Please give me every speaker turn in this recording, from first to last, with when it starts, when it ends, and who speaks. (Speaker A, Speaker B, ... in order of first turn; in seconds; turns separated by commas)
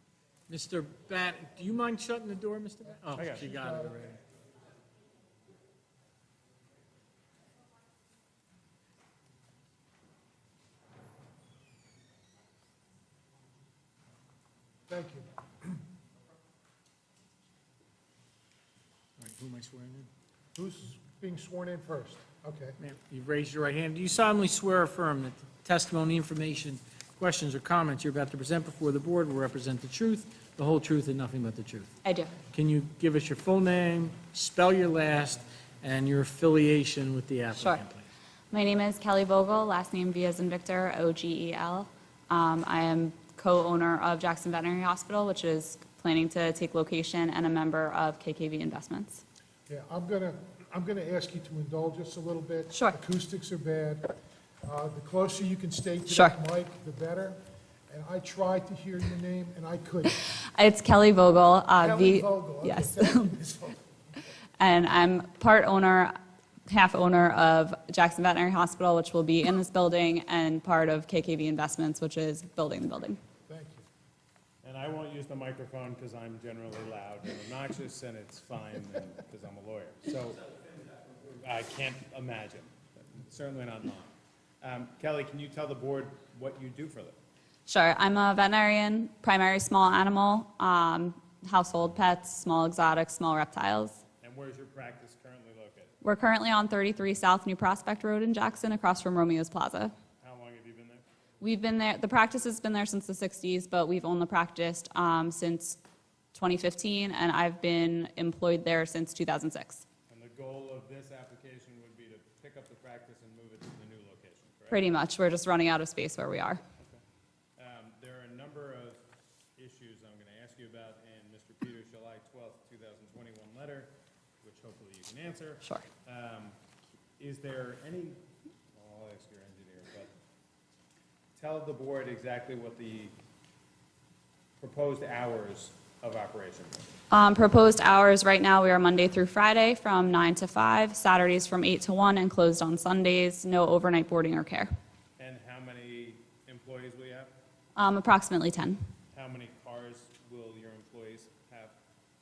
Speaker A: 0.5-4.2, Speaker B: 3.1-3.5, Speaker C: 3.5-3.9, Speaker C: 14.9-15.3, Speaker A: 19.2-20.1, Speaker C: 20.6-22.8, Speaker A: 22.8-31.9, Speaker D: 32.0-32.4, Speaker A: 32.5-38.0, Speaker D: 38.5-49.2, Speaker C: 49.7-57.4, Speaker D: 56.1-56.4, Speaker C: 57.9-60.1, Speaker D: 60.3-63.3, Speaker C: 61.8-63.8, Speaker D: 64.6-66.1, Speaker D: 66.7-73.2, Speaker C: 73.5-73.8, Speaker B: 74.6-80.4, Speaker B: 81.4-87.2, Speaker D: 87.7-94.0, Speaker B: 94.2-95.9, Speaker D: 96.0-99.9, Speaker B: 100.2-101.0, Speaker D: 101.4-105.8, Speaker D: 106.3-109.8, Speaker B: 110.1-114.8, Speaker D: 114.7-116.6, Speaker B: 117.6-119.0, Speaker B: 119.6-126.6, Speaker B: 127.2-128.2, Speaker B: 128.8-130.1, Speaker B: 131.4-133.2, Speaker B: 134.6-136.9, Speaker D: 137.1-144.7, Speaker B: 145.2-147.3, Speaker D: 147.8-148.8, Speaker B: 149.1-151.8